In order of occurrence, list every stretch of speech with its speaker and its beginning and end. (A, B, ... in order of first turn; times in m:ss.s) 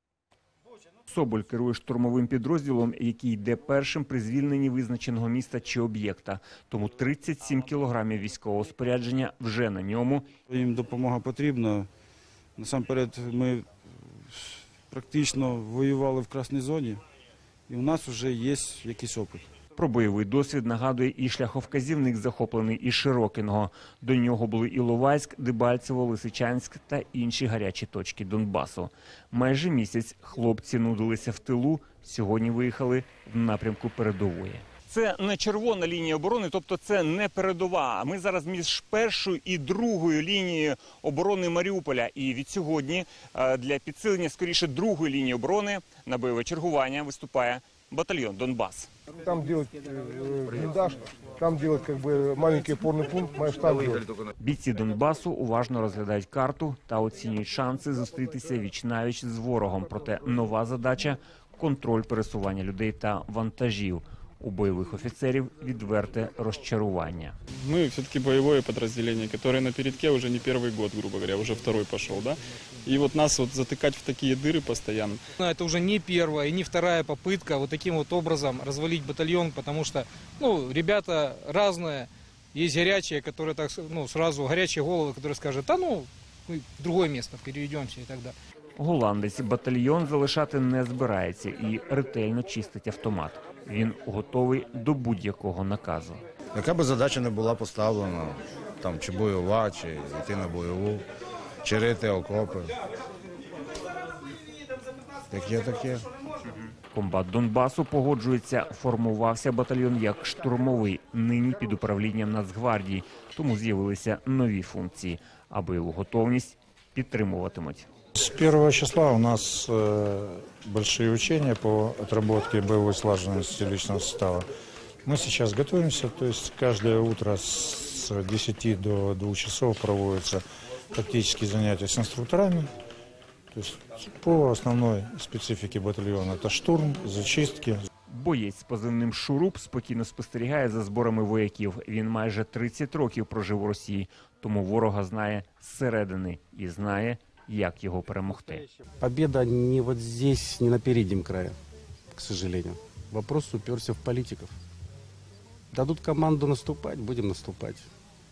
0:01.1-0:10.3 A
0:10.5-0:11.9 B
0:12.6-0:17.0 B
0:17.7-0:19.4 B
0:19.8-0:48.9 A
0:49.2-0:54.0 C
0:54.4-1:07.3 A
1:07.6-1:15.2 D
1:15.4-1:28.3 E
1:28.8-1:36.2 A
1:36.5-1:41.0 F
1:41.6-1:42.7 F
1:45.3-1:46.1 F
1:46.9-1:57.9 A
1:58.2-2:04.5 G
2:05.0-2:12.7 G
2:13.5-2:17.8 G
2:18.1-2:28.6 A
2:29.0-2:31.6 H
2:32.1-2:34.6 H
2:35.7-2:37.9 H